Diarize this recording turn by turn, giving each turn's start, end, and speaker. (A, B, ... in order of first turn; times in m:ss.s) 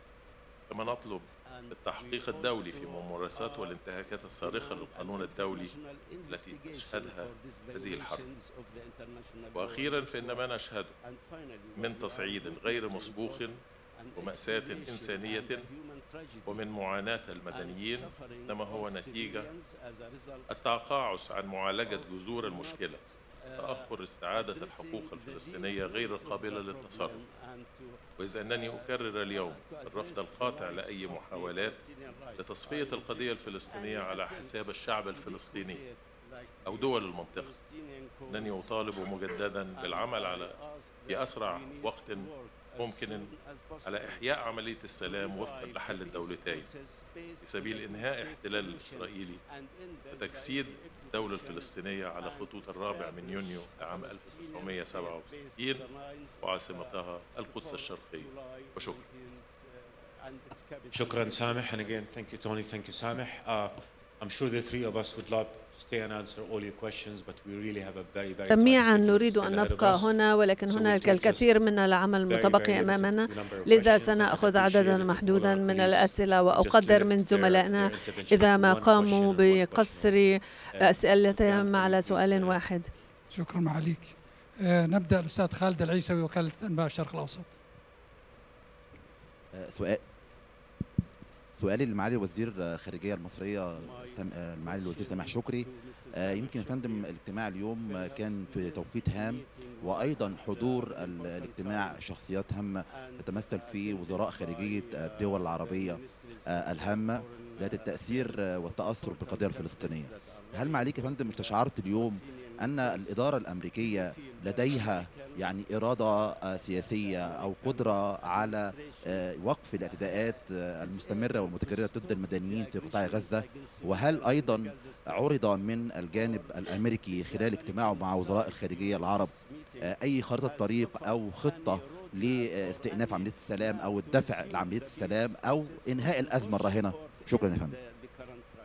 0:00.7-0:05.8 A
0:06.3-0:08.3 A
0:09.5-0:10.9 A
0:11.8-0:13.6 A
0:14.1-0:15.7 A
0:16.4-0:19.5 A
0:20.5-0:27.2 A
0:28.2-0:31.8 A
0:32.3-0:35.8 A
0:36.6-0:37.5 A
0:38.3-0:40.6 A
0:41.1-0:46.7 A
0:47.4-0:49.4 A
0:50.1-0:59.0 A
1:00.9-1:10.0 B
1:08.5-1:22.9 C
1:10.7-1:11.6 B
1:12.3-1:20.1 B
1:20.8-1:22.6 B
1:23.3-1:27.6 D
1:29.6-1:30.0 E
1:31.6-2:17.8 E